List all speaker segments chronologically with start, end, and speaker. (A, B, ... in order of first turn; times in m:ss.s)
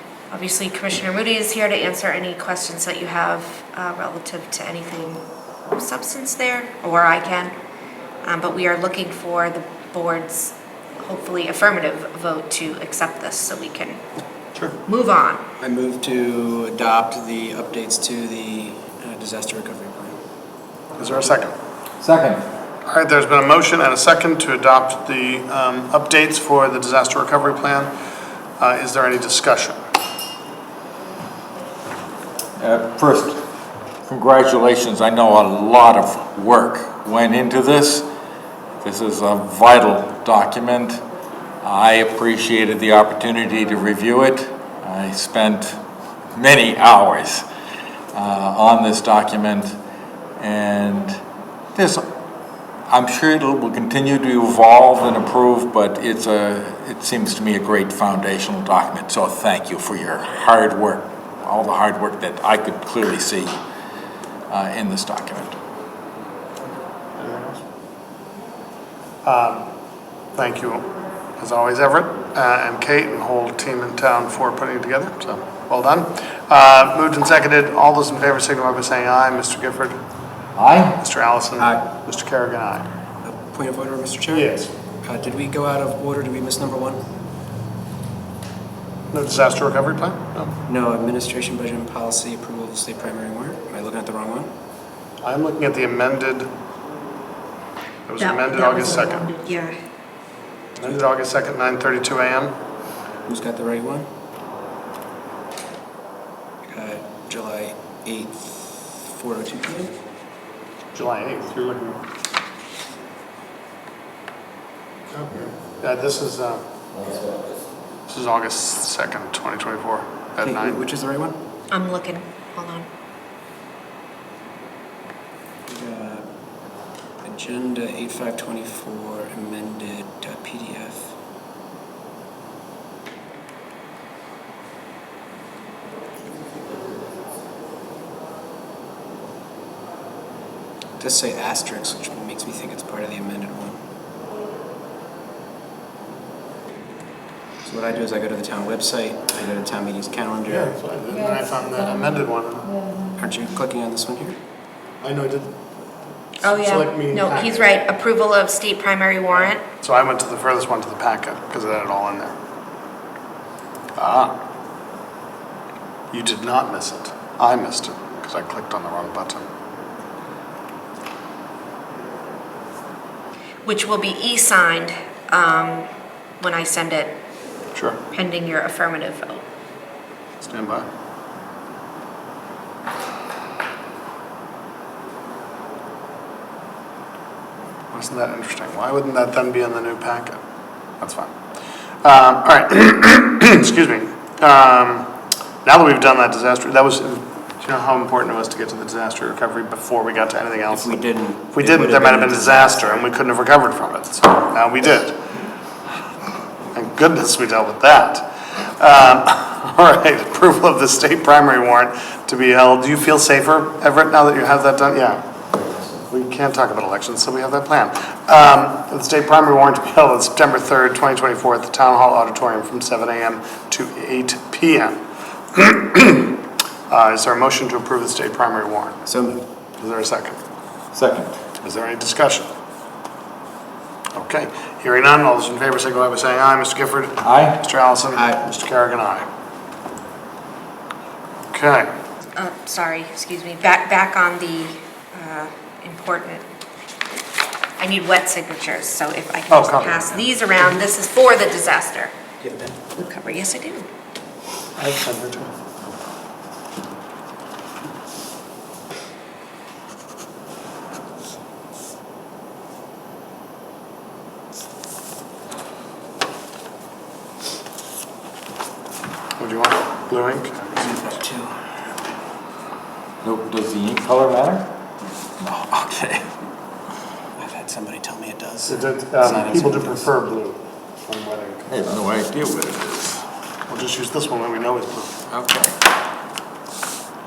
0:00.3-0:07.5 A
0:08.2-0:14.0 A
0:14.8-0:15.4 A
0:15.6-0:20.2 B
0:21.0-0:21.5 C
0:22.0-0:22.4 D
0:22.8-0:27.9 C
0:28.6-0:29.8 C
0:32.6-0:33.4 D
0:34.0-0:38.1 D
0:38.8-0:41.0 D
0:41.6-0:45.8 D
0:46.3-0:47.4 D
0:48.1-0:49.8 D
0:50.4-0:51.2 D
0:51.7-0:52.0 D
0:52.9-1:03.6 D
1:04.5-1:05.6 D
1:07.2-1:07.6 C
1:09.2-1:09.7 C
1:10.3-1:10.9 C
1:11.4-1:20.0 C
1:20.6-1:21.0 D
1:21.0-1:22.9 C
1:21.6-1:21.9 B
1:23.2-1:24.5 B
1:24.3-1:24.7 C
1:25.0-1:27.0 B
1:29.1-1:30.5 C
1:30.7-1:34.5 B
1:35.2-1:36.5 C
1:38.1-1:39.2 C
1:38.2-1:39.8 A
1:40.8-1:42.5 C
1:43.3-1:44.1 B
1:46.7-1:49.9 B
1:50.9-1:52.0 C
1:55.1-1:56.6 C
1:58.1-2:00.9 C
2:00.4-2:01.4 B
2:01.7-2:02.9 A
2:05.7-2:06.2 B
2:07.2-2:11.1 B
2:21.0-2:23.8 B
2:27.6-2:30.7 B
2:30.4-2:32.9 C
2:33.1-2:34.4 B
2:35.0-2:35.6 C
2:36.4-2:39.6 A
2:36.4-2:37.7 C
2:39.8-2:42.3 C
2:44.0-2:44.3 C
2:46.1-2:49.5 C
2:53.6-2:55.9 A
2:56.4-2:57.2 A
2:57.7-2:58.0 C
2:58.1-2:59.4 A
3:00.4-3:00.9 C
3:07.9-3:10.4 C
3:11.0-3:11.3 C
3:12.0-3:15.1 C
3:15.6-3:21.0 C
3:20.7-3:23.0 B
3:21.5-3:25.2 C
3:26.7-3:35.2 C
3:36.0-3:45.0 C
3:45.5-3:46.3 C
3:46.9-3:49.0 C
3:49.1-3:49.4 B
3:49.8-3:50.4 C
3:50.9-3:51.4 D
3:51.6-3:52.5 C
3:54.1-3:59.3 C
3:57.2-3:57.6 D
3:58.1-3:58.4 B
4:01.5-4:01.9 C
4:02.3-4:06.4 A
4:07.8-4:12.1 A
4:09.5-4:10.2 C
4:12.4-4:12.7 B
4:12.9-4:13.9 A
4:14.8-4:15.5 C
4:29.4-4:30.8 C
4:30.8-4:31.5 B
4:33.2-4:34.7 D
4:35.4-4:36.3 D
4:37.4-4:40.1 B
4:38.7-4:41.9 C
4:41.7-4:43.2 D
4:43.7-4:45.2 C
4:45.4-4:45.7 D